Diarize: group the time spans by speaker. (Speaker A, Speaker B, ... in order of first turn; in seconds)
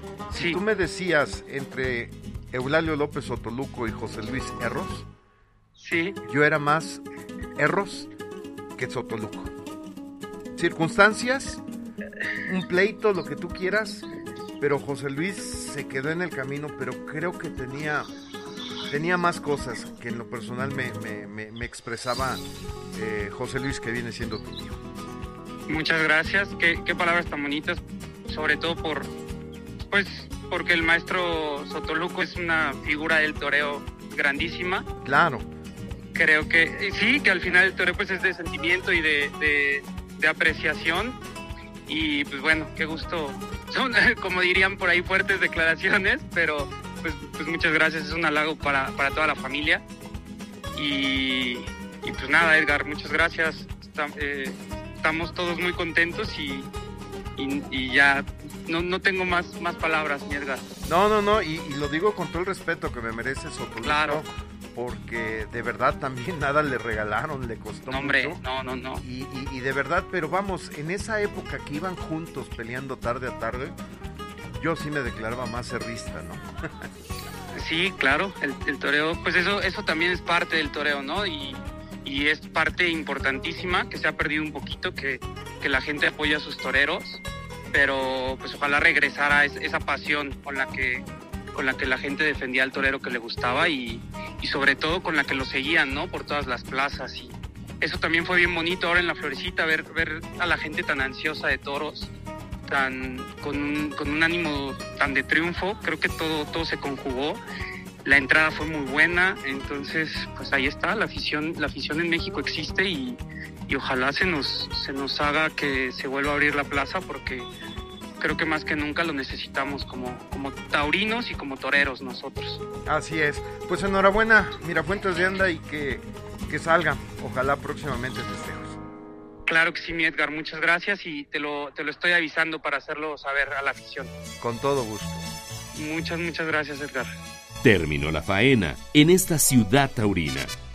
Speaker A: 0.3-5.1, 6.2-7.0, 7.6-8.1, 8.8-9.5, 10.6-11.6, 12.4-14.1, 14.6-18.1, 18.9-22.4, 22.9-24.8, 35.0-35.5, 60.9-68.4, 69.0-73.8, 74.5-76.5, 122.9-128.8, 134.4-135.3
Speaker B: 0.3-0.6, 5.8-6.2, 25.7-29.1, 29.9-34.9, 36.1-41.2, 41.9-49.8, 50.7-56.7, 57.4-60.7, 63.8-64.2, 67.9-69.0, 77.5-87.2, 87.7-102.1, 102.7-107.4, 108.0-117.5, 118.2-122.6, 129.5-134.1, 135.7-137.1
Speaker C: 137.6-140.5